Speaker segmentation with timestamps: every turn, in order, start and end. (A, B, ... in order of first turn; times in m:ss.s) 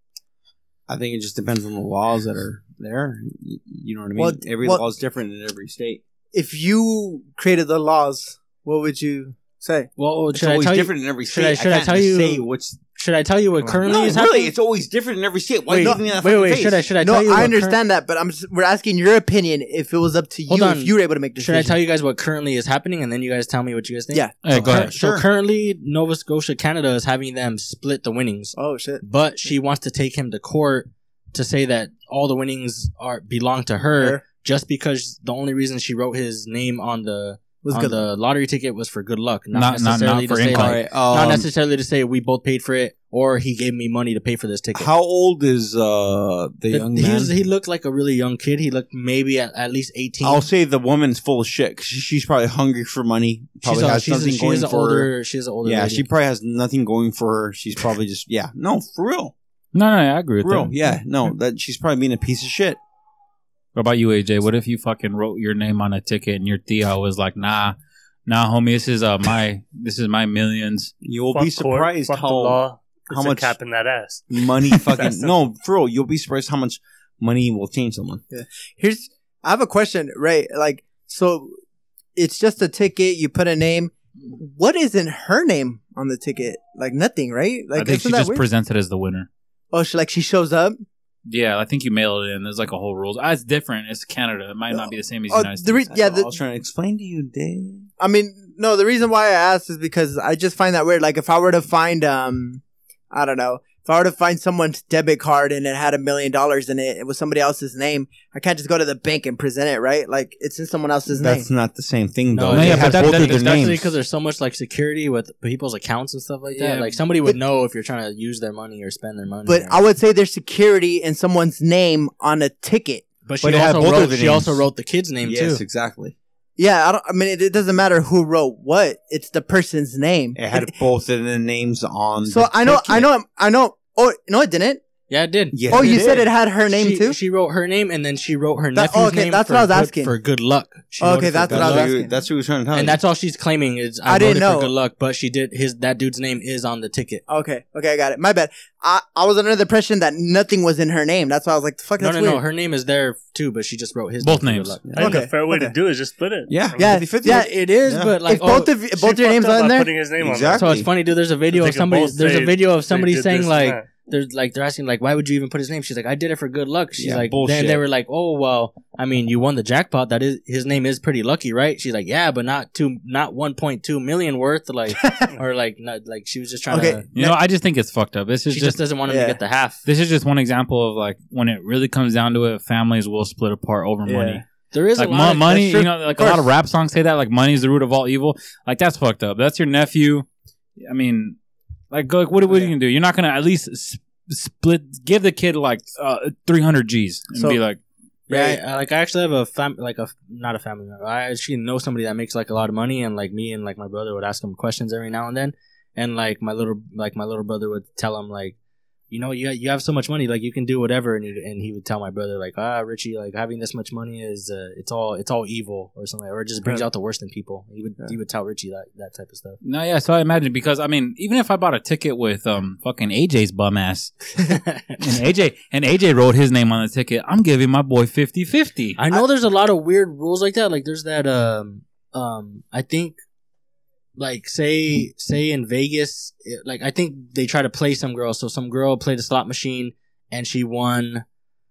0:00.9-0:06.0 A
0:04.2-0:04.8 B
0:06.3-0:09.9 B
0:10.0-0:14.5 C
0:10.3-0:12.8 A
0:13.6-0:14.2 B
0:13.8-0:16.9 A
0:15.7-0:17.8 C
0:15.8-0:16.0 B
0:17.0-0:21.8 B
0:20.5-0:44.9 C
0:24.4-0:24.9 D
0:24.5-0:25.3 A
0:28.5-0:29.0 B
0:34.0-0:34.2 B
0:37.6-0:38.0 B
0:39.5-0:40.8 D
0:40.5-0:41.5 A
0:44.7-0:47.3 A
0:46.7-0:50.4 C
0:50.2-0:55.1 A
0:53.6-0:56.0 C
0:55.6-0:59.3 A
0:59.7-1:00.7 D
1:00.4-1:02.8 A
1:03.7-1:07.8 D
1:08.3-1:10.9 D
1:11.0-1:13.5 A
1:11.3-1:15.3 E
1:14.3-1:18.2 A
1:18.3-1:21.5 B
1:22.2-1:28.4 B
1:27.7-1:29.3 D
1:29.7-1:30.8 B
1:31.2-1:35.9 D
1:34.7-1:36.3 B
1:35.9-1:37.9 A
1:38.0-1:51.5 B
1:51.1-1:53.9 A
1:52.3-1:59.8 C
1:52.5-1:53.6 D
1:56.6-1:57.0 D
1:59.4-2:03.0 B
2:03.2-2:05.6 C
2:03.4-2:04.6 A
2:05.2-2:06.1 A
2:06.6-2:10.7 B
2:10.4-2:13.1 A
2:12.2-2:14.8 B
2:15.1-2:22.0 C
2:15.5-2:16.3 A
2:15.7-2:17.2 B
2:18.7-2:20.1 B
2:21.0-2:22.2 B
2:21.5-2:23.0 A
2:22.7-2:27.2 C
2:24.0-2:24.7 B
2:27.3-2:32.4 B
2:32.0-2:34.8 C
2:34.2-2:34.8 D
2:34.8-2:35.2 A
2:35.0-2:37.0 E
2:35.0-2:35.7 B
2:36.5-2:38.1 A
2:36.8-2:37.5 B
2:37.2-2:38.7 C
2:38.2-2:39.9 B
2:38.9-2:40.8 E
2:40.2-2:40.9 A
2:40.5-2:57.0 C
2:41.5-2:43.9 E
2:47.0-2:47.8 A
2:55.0-2:55.3 B
2:56.7-2:57.4 B
2:57.1-2:58.8 D
2:58.5-2:59.8 C
2:59.1-2:59.4 B
2:59.8-3:04.4 D
3:04.0-3:04.4 B
3:04.7-3:05.9 C
3:05.0-3:10.2 D
3:06.1-3:06.5 B
3:10.8-3:11.4 D
3:11.9-3:17.8 D
3:12.5-3:12.7 B
3:18.3-3:28.6 C
3:18.3-3:18.6 B
3:29.1-3:39.6 C
3:39.6-3:44.4 D
3:44.4-3:45.0 C
3:45.0-3:49.0 D
3:49.0-3:53.2 C
3:54.2-4:01.2 C